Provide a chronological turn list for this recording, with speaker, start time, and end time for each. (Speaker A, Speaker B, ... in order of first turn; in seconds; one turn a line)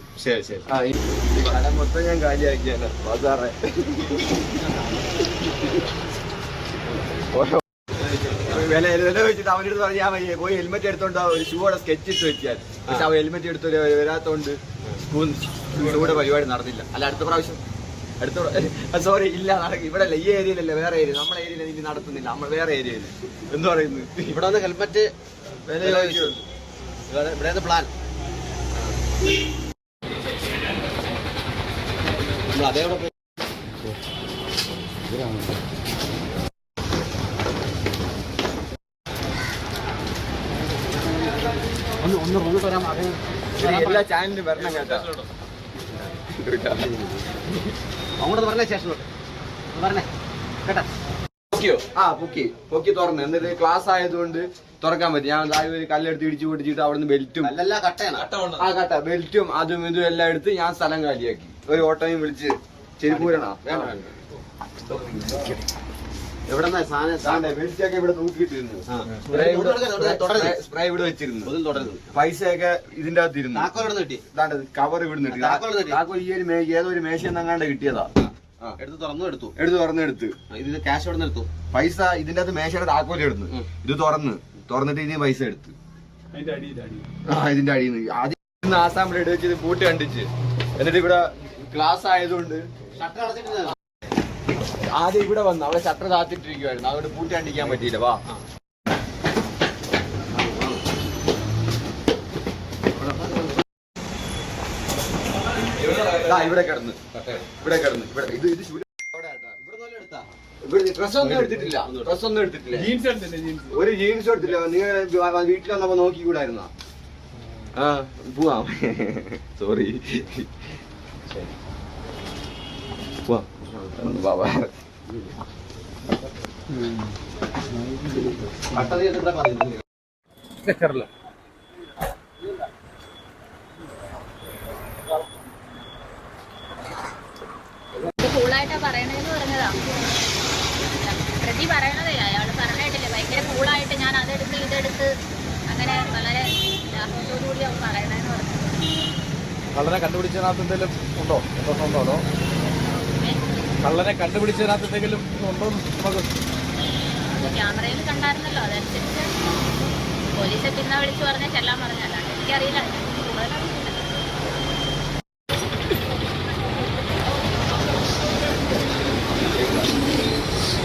Speaker A: 0.2-0.6
Speaker B: 0.7-4.5
Speaker B: 7.3-7.6
Speaker B: 8.3-17.6
Speaker B: 18.2-24.4
Speaker A: 24.3-25.1
Speaker B: 25.7-26.4
Speaker A: 25.8-26.4
Speaker A: 27.1-27.9
Speaker A: 32.5-33.1
Speaker A: 42.0-44.0
Speaker B: 43.6-45.1
Speaker C: 44.6-44.9
Speaker B: 46.3-46.9
Speaker A: 46.8-47.3
Speaker A: 48.2-49.0
Speaker A: 49.7-50.1
Speaker A: 50.6-50.9
Speaker B: 51.5-57.5
Speaker A: 57.4-58.4
Speaker B: 58.5-63.9
Speaker A: 63.1-64.1
Speaker B: 64.9-65.5
Speaker A: 66.5-67.6
Speaker B: 67.2-71.5
Speaker A: 68.9-70.6
Speaker A: 71.4-72.1
Speaker B: 72.1-78.8
Speaker A: 73.5-74.2
Speaker A: 75.3-76.0
Speaker A: 78.2-79.5
Speaker B: 79.6-80.4
Speaker A: 80.5-81.5
Speaker B: 81.7-85.8
Speaker C: 86.3-87.1
Speaker B: 87.3-92.6
Speaker A: 93.0-93.7
Speaker B: 94.9-98.2
Speaker A: 100.4-100.8
Speaker B: 105.9-109.6
Speaker A: 109.6-110.3
Speaker B: 110.6-112.9
Speaker A: 111.7-112.1
Speaker C: 112.8-113.7
Speaker B: 113.7-116.7
Speaker B: 117.8-120.5
Speaker B: 123.3-124.7
Speaker A: 128.7-129.8
Speaker C: 130.6-131.1
Speaker D: 138.2-145.1
Speaker D: 145.7-148.9
Speaker C: 149.7-152.2
Speaker D: 153.0-153.4
Speaker C: 153.8-156.3
Speaker D: 157.2-159.6
Speaker D: 160.4-164.2
Speaker B: 169.5-169.9